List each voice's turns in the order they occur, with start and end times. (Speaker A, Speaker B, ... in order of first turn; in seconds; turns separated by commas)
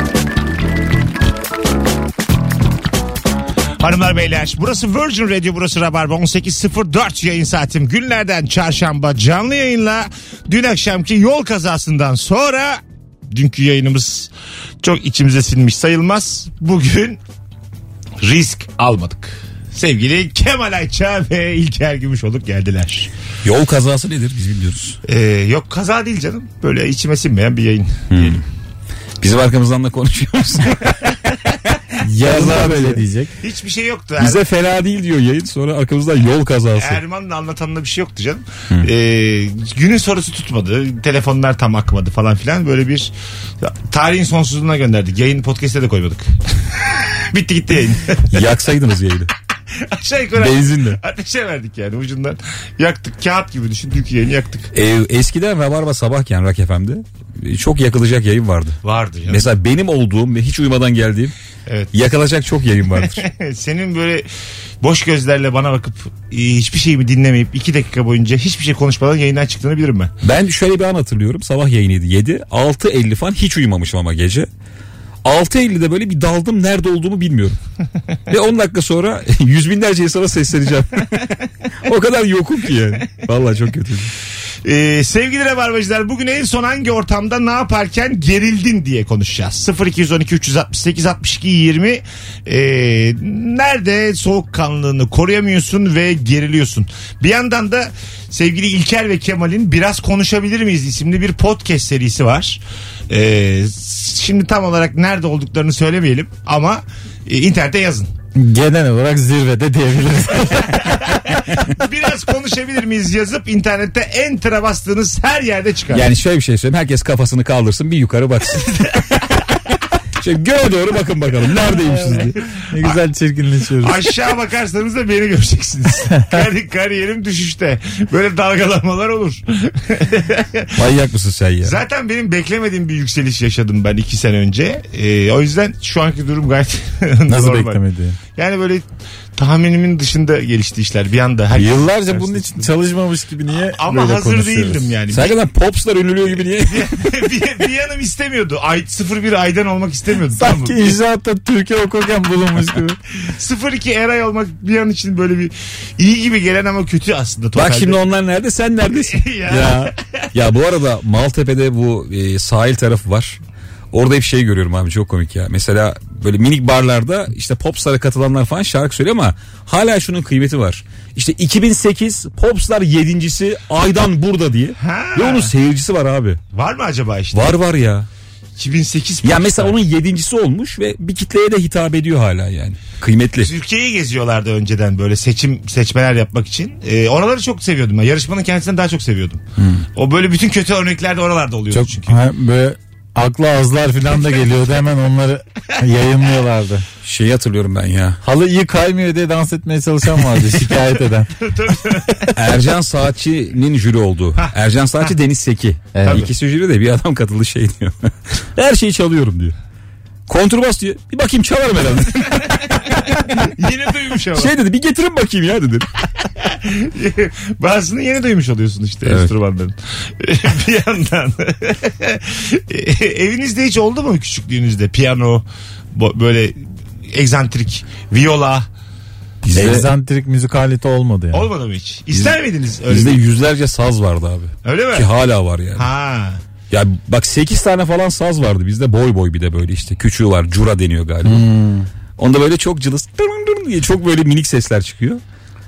Speaker A: 3.8-14.3, Speaker A: 14.8-17.2, Speaker A: 18.2-23.1, Speaker B: 23.4-25.0, Speaker A: 25.1-28.4, Speaker B: 28.1-28.4, Speaker B: 29.2-31.0, Speaker C: 32.0-33.3, Speaker B: 32.2-33.0, Speaker A: 33.4-34.4, Speaker B: 34.2-37.0, Speaker A: 36.8-46.3, Speaker A: 46.8-48.4, Speaker B: 48.3-49.3, Speaker A: 49.8-54.7, Speaker B: 50.4-51.0, Speaker B: 54.7-61.3, Speaker A: 58.8-59.5, Speaker B: 61.9-63.2, Speaker A: 63.0-64.3, Speaker A: 64.8-70.1, Speaker B: 70.2-74.5, Speaker B: 75.2-77.6, Speaker B: 78.3-84.1, Speaker A: 84.6-108.1, Speaker C: 108.3-111.1, Speaker A: 110.9-116.1, Speaker B: 115.9-118.7, Speaker A: 118.5-119.4, Speaker B: 120.2-122.4, Speaker C: 121.7-124.1, Speaker A: 123.8-130.8, Speaker B: 130.8-131.8, Speaker A: 131.6-137.8, Speaker C: 137.3-138.2, Speaker A: 138.3-142.7, Speaker C: 141.5-144.9, Speaker A: 143.7-145.3, Speaker B: 145.1-146.9, Speaker A: 146.7-151.0, Speaker C: 150.3-153.0, Speaker A: 153.3-158.0, Speaker B: 157.6-163.4, Speaker A: 158.9-160.2, Speaker B: 163.9-176.4, Speaker A: 174.8-175.5, Speaker A: 176.5-177.6, Speaker B: 177.3-178.1, Speaker A: 178.6-179.8, Speaker B: 179.2-183.5, Speaker A: 183.4-189.4, Speaker B: 189.6-189.9, Speaker A: 189.9-192.2, Speaker C: 191.7-196.9, Speaker B: 197.0-198.2, Speaker C: 198.2-201.3, Speaker A: 201.4-202.3, Speaker B: 202.3-209.6, Speaker C: 205.9-206.3, Speaker B: 210.3-213.5, Speaker A: 212.9-214.5, Speaker B: 214.3-215.9, Speaker A: 216.4-226.6, Speaker B: 219.1-219.3, Speaker A: 227.1-228.7, Speaker B: 229.4-229.9, Speaker C: 229.5-231.5, Speaker A: 231.3-233.2, Speaker B: 232.9-235.9, Speaker A: 234.7-235.1, Speaker A: 235.8-236.4, Speaker B: 236.7-241.5, Speaker C: 241.2-241.9, Speaker B: 242.2-245.2